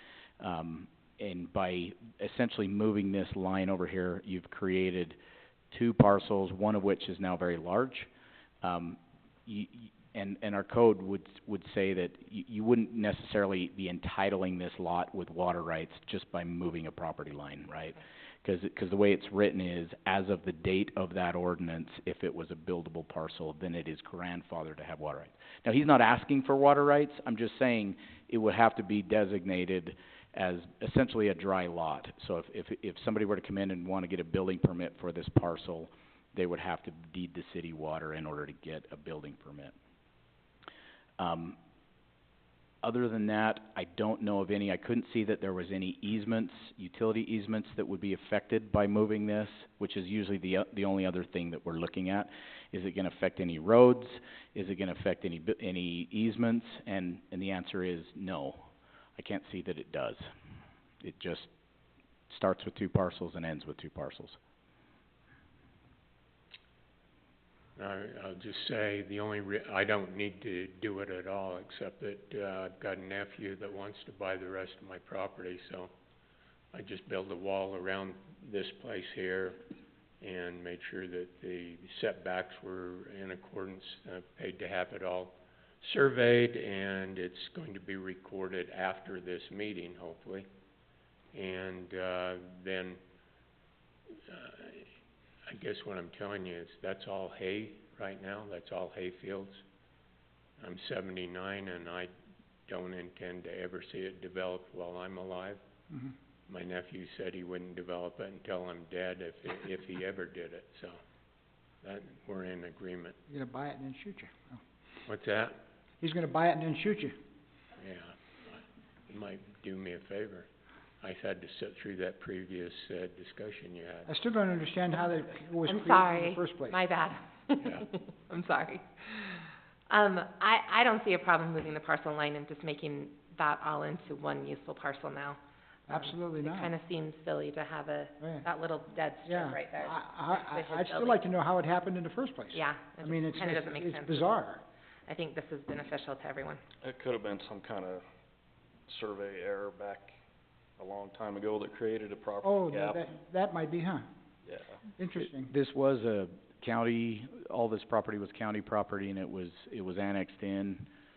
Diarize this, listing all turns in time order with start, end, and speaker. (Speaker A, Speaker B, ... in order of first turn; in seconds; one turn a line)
Speaker A: 0.4-5.2
Speaker A: 5.7-8.1
Speaker A: 8.6-39.8
Speaker A: 41.2-41.6
Speaker A: 42.8-60.2
Speaker A: 61.0-61.5
Speaker A: 62.3-64.4
Speaker B: 67.8-75.9
Speaker B: 76.7-79.6
Speaker B: 80.2-90.5
Speaker B: 91.3-93.0
Speaker B: 94.3-94.8
Speaker B: 95.5-99.6
Speaker B: 100.6-102.1
Speaker B: 102.7-105.6
Speaker B: 106.5-111.0
Speaker B: 111.8-113.2
Speaker C: 113.3-114.6
Speaker B: 115.1-115.6
Speaker C: 116.0-117.2
Speaker B: 117.8-120.5
Speaker B: 121.0-124.1
Speaker C: 124.1-126.8
Speaker D: 125.6-135.4
Speaker B: 127.6-127.9
Speaker C: 135.9-136.7
Speaker D: 135.9-141.2
Speaker C: 138.2-138.5
Speaker C: 139.2-144.6
Speaker D: 142.5-144.3
Speaker D: 145.1-146.6
Speaker E: 146.8-148.0
Speaker E: 148.9-150.2
Speaker E: 150.8-153.1
Speaker C: 152.4-154.1
Speaker E: 154.4-154.8
Speaker C: 155.0-155.5
Speaker A: 155.2-160.9